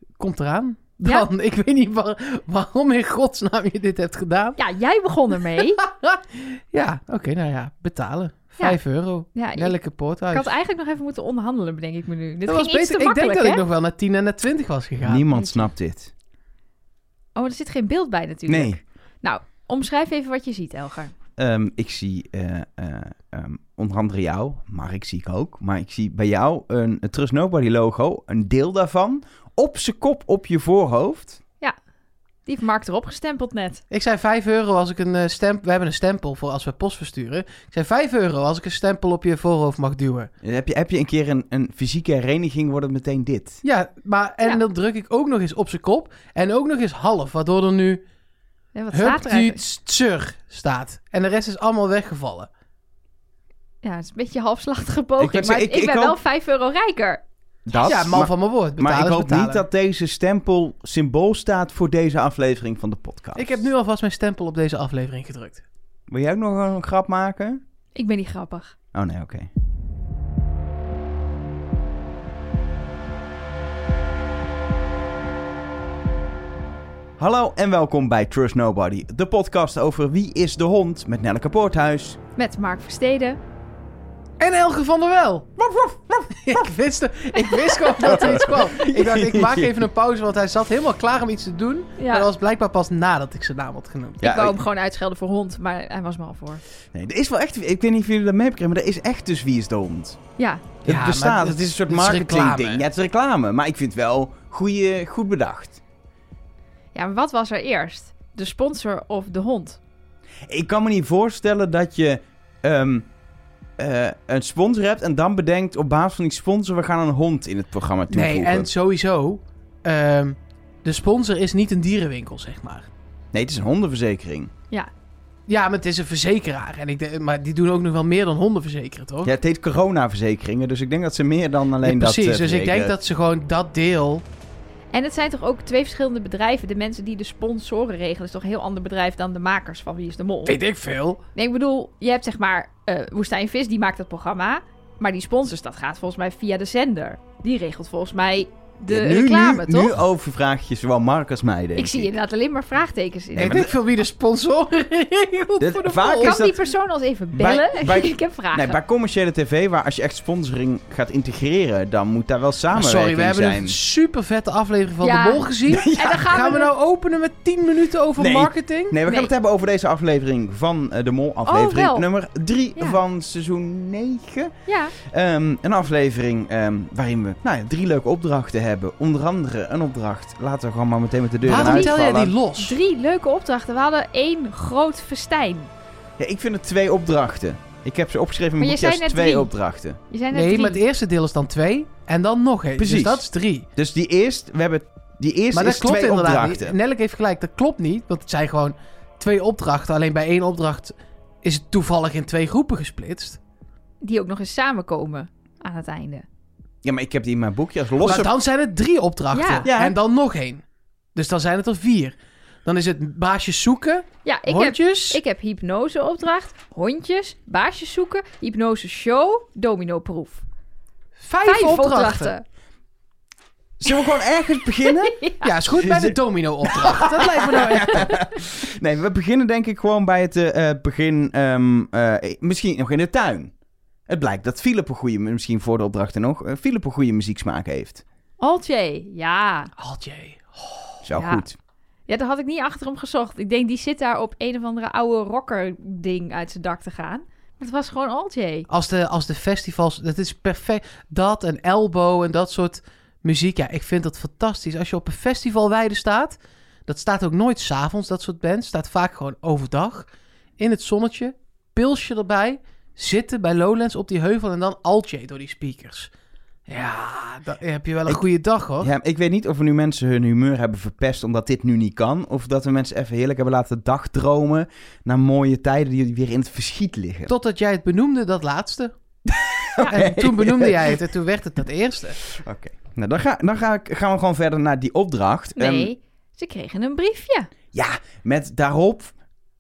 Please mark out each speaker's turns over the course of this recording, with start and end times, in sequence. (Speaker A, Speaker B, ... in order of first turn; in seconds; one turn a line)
Speaker A: 0.2-4.6
Speaker B: 4.6-5.8
Speaker A: 5.6-10.5
Speaker B: 9.3-9.8
Speaker B: 10.3-13.6
Speaker A: 12.5-15.3
Speaker C: 15.0-16.1
Speaker B: 17.4-21.1
Speaker C: 18.5-18.8
Speaker C: 21.4-31.4
Speaker B: 32.5-33.8
Speaker A: 33.9-40.3
Speaker C: 40.4-43.6
Speaker A: 43.6-48.0
Speaker B: 48.7-49.6
Speaker A: 48.9-52.5
Speaker B: 53.8-57.2
Speaker C: 55.2-56.2
Speaker C: 57.7-63.6
Speaker A: 57.8-59.6
Speaker A: 63.4-65.6
Speaker C: 66.1-67.6
Speaker B: 68.0-68.7
Speaker C: 68.9-69.5
Speaker C: 77.2-82.2
Speaker B: 82.4-83.4
Speaker A: 84.4-85.6
Speaker C: 85.6-86.3
Speaker A: 86.3-94.3
Speaker C: 87.7-89.8
Speaker B: 92.0-92.3
Speaker C: 94.2-94.6
Speaker B: 94.2-96.6
Speaker C: 96.9-100.2
Speaker B: 100.4-100.7
Speaker C: 100.8-105.8
Speaker A: 100.8-102.9
Speaker B: 106.9-109.8
Speaker C: 110.5-113.1
Speaker C: 113.8-118.7
Speaker A: 118.1-122.9
Speaker C: 123.3-124.5
Speaker A: 125.5-129.3
Speaker C: 129.2-132.9
Speaker A: 131.8-134.2
Speaker B: 134.9-140.6
Speaker A: 140.5-141.2
Speaker B: 141.4-149.9
Speaker C: 148.9-152.1
Speaker B: 151.8-153.7
Speaker C: 153.3-153.7
Speaker A: 153.4-156.4
Speaker C: 155.6-156.6
Speaker B: 156.2-158.8
Speaker C: 157.3-163.8
Speaker A: 162.7-169.0
Speaker B: 165.0-166.7
Speaker C: 165.7-166.2
Speaker C: 168.2-182.3
Speaker B: 171.5-172.1
Speaker B: 174.7-174.9
Speaker A: 181.4-182.8
Speaker B: 181.5-182.0
Speaker B: 182.6-185.7
Speaker C: 186.2-190.0
Speaker B: 188.6-189.5
Speaker B: 190.1-190.8
Speaker A: 190.3-193.7
Speaker C: 192.8-193.2
Speaker C: 193.8-196.8
Speaker A: 195.5-203.4
Speaker B: 204.0-206.2
Speaker C: 206.8-208.3
Speaker A: 208.0-210.6
Speaker B: 209.3-209.7
Speaker C: 209.7-210.0
Speaker A: 211.2-215.2
Speaker B: 214.2-220.4
Speaker A: 221.2-222.3
Speaker B: 221.4-222.4
Speaker C: 223.8-226.2
Speaker B: 224.8-225.4
Speaker A: 225.4-228.1
Speaker C: 226.7-233.5
Speaker C: 234.1-238.0
Speaker B: 238.4-239.7
Speaker A: 239.8-241.0
Speaker C: 241.0-241.6
Speaker B: 241.2-241.4
Speaker B: 242.1-248.7
Speaker A: 248.7-266.1
Speaker A: 266.7-268.9
Speaker C: 268.8-277.3
Speaker A: 277.3-279.0
Speaker C: 279.3-280.9
Speaker A: 279.8-282.2
Speaker C: 282.2-285.9
Speaker B: 285.6-287.5
Speaker C: 287.7-289.1